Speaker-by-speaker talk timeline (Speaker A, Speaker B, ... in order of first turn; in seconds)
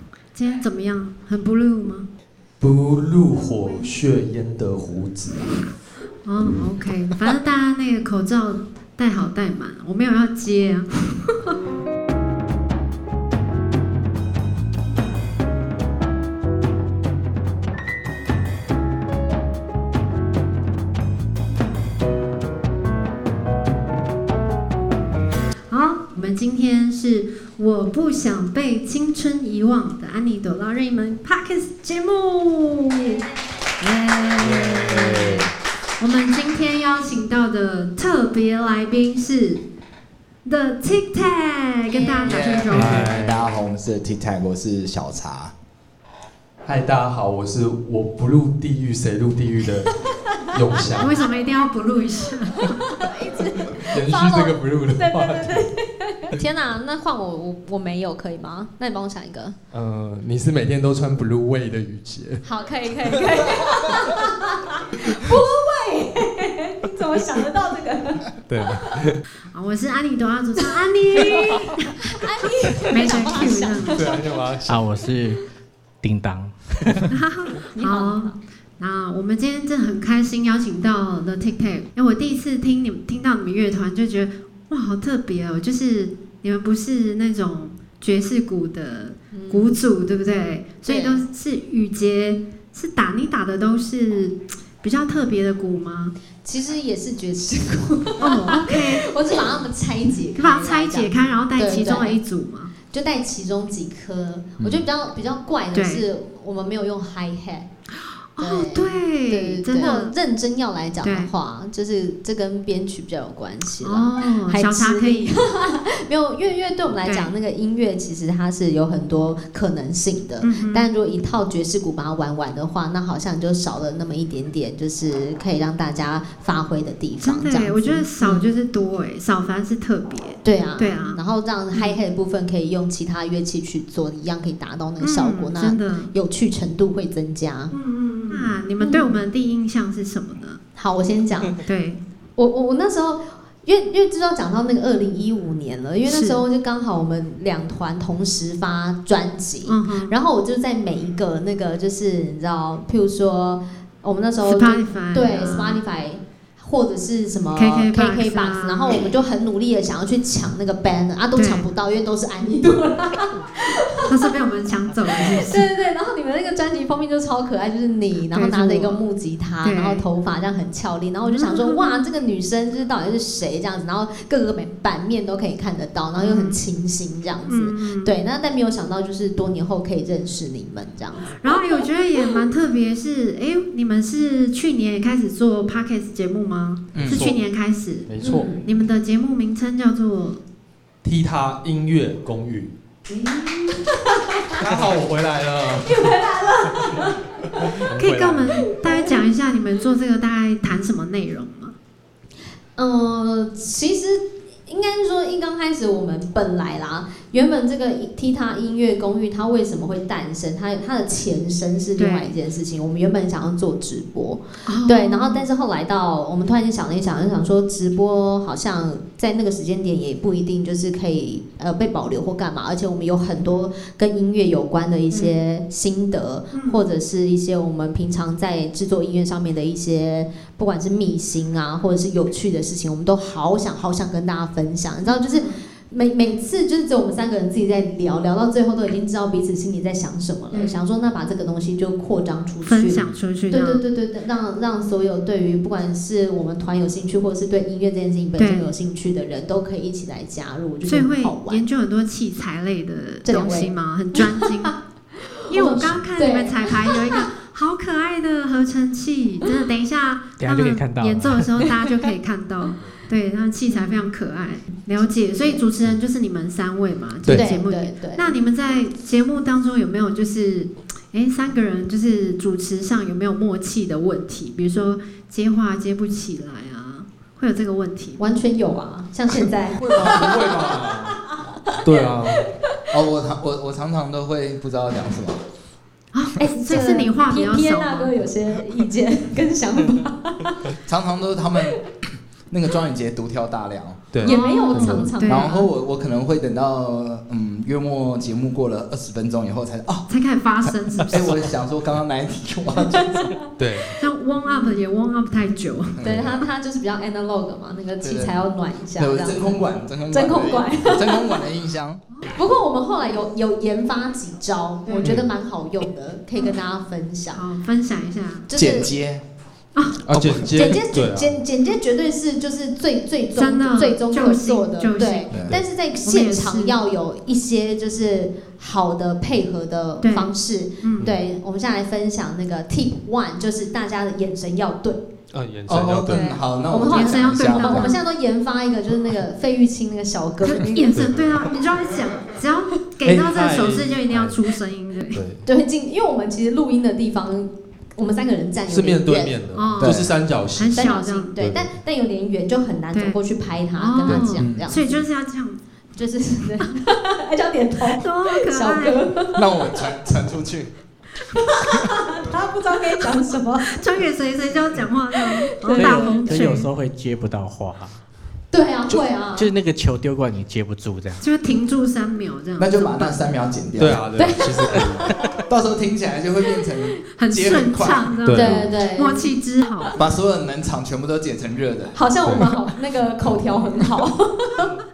Speaker A: 0.3-2.1, 6.2-11.3, 25.7-33.2, 33.8-35.4, 36.0-39.6, 40.4-43.1, 51.0-52.8, 69.5-72.0, 72.9-74.0, 77.1-96.1, 98.2-99.1, 100.3-102.7, 105.7-106.0, 108.3-110.1, 111.0-111.3, 113.8-115.3, 117.0-117.3, 120.4-120.8, 127.2-131.2, 131.7-132.0, 135.0-136.1, 137.7-140.6, 141.6-142.0, 146.1-146.4, 149.7-150.1, 154.4-155.8, 157.5-159.1, 161.3-161.7, 164.0-165.6, 168.3-169.0, 169.6-170.0, 171.2-172.1, 176.2-176.6, 177.5-178.1, 181.3-190.4, 197.9-201.7, 212.0-212.4, 214.7-215.4, 226.5-226.8, 235.1-235.6, 240.5-240.8, 242.6-243.8, 248.4-248.7, 250.8-254.8, 255.5-278.2, 286.1-288.1, 294.2-295.7, 300.1-301.5, 303.9-306.0, 314.9-315.1, 317.3-318.5, 323.4-325.4, 326.0-326.8, 330.0-331.1, 336.9-338.0, 340.4-345.2, 349.5-351.3, 352.9-353.2, 353.8-355.6, 358.0-359.1, 363.7-366.7, 371.2-373.3, 377.2-380.0
Speaker B: 2.6-5.7, 34.4-35.5, 42.7-43.6, 46.6-51.2, 53.7-55.7, 59.7-62.5, 63.0-64.2, 68.5-69.2, 73.9-74.9, 187.0-187.4, 188.1-188.6, 191.0-192.7, 194.5-196.2, 197.7-198.7, 279.8-281.2, 281.8-282.5, 294.1-295.1, 303.6-304.0, 315.0-315.3, 320.1-321.4, 335.3-336.3, 340.9-341.5, 343.0-344.4, 345.1-345.4, 348.7-351.7, 354.1-354.3, 373.8-375.1, 378.2-378.8, 382.2-382.5
Speaker C: 41.9-42.4, 52.7-59.5, 62.4-69.1, 70.7-74.2, 77.7-78.4, 89.3-89.8, 90.8-91.2, 96.4-102.2, 102.8-107.7, 108.4-128.4, 130.4-137.7, 138.2-139.2, 140.8-141.6, 142.4-164.3, 165.1-182.3, 188.2-188.7, 193.1-194.6, 195.8-197.8, 198.5-199.2, 202.8-251.6, 253.2-254.7, 255.4-257.3, 263.7-264.1, 267.3-268.3, 278.2-281.7, 286.4-290.8, 294.2-295.6, 302.8-303.4, 304.4-304.8, 306.1-311.4, 312.3-317.4, 318.5-318.9, 320.4-335.1, 336.1-341.0, 345.4-349.4, 350.7-355.0, 355.9-359.9, 361.3-363.8, 365.1-366.5, 368.5-369.5, 374.1-374.5, 378.3-379.9, 381.9-384.7
Speaker D: 42.2-45.5, 104.6-104.9, 186.9-187.3, 279.9-280.3, 282.9-285.4, 290.8-291.8, 292.5-294.1, 295.2-300.1, 300.6-303.3, 306.0-306.4, 308.0-308.4, 309.0-312.0, 318.5-319.2, 320.1-320.6, 325.3-325.6, 335.7-337.9, 349.8-350.1, 354.4-354.7, 359.3-360.7, 372.6-374.1, 375.5-378.2, 379.9-382.0
Speaker E: 74.7-75.4, 76.0-77.1, 260.4-261.5, 365.6-368.0, 368.9-371.2, 374.7-375.2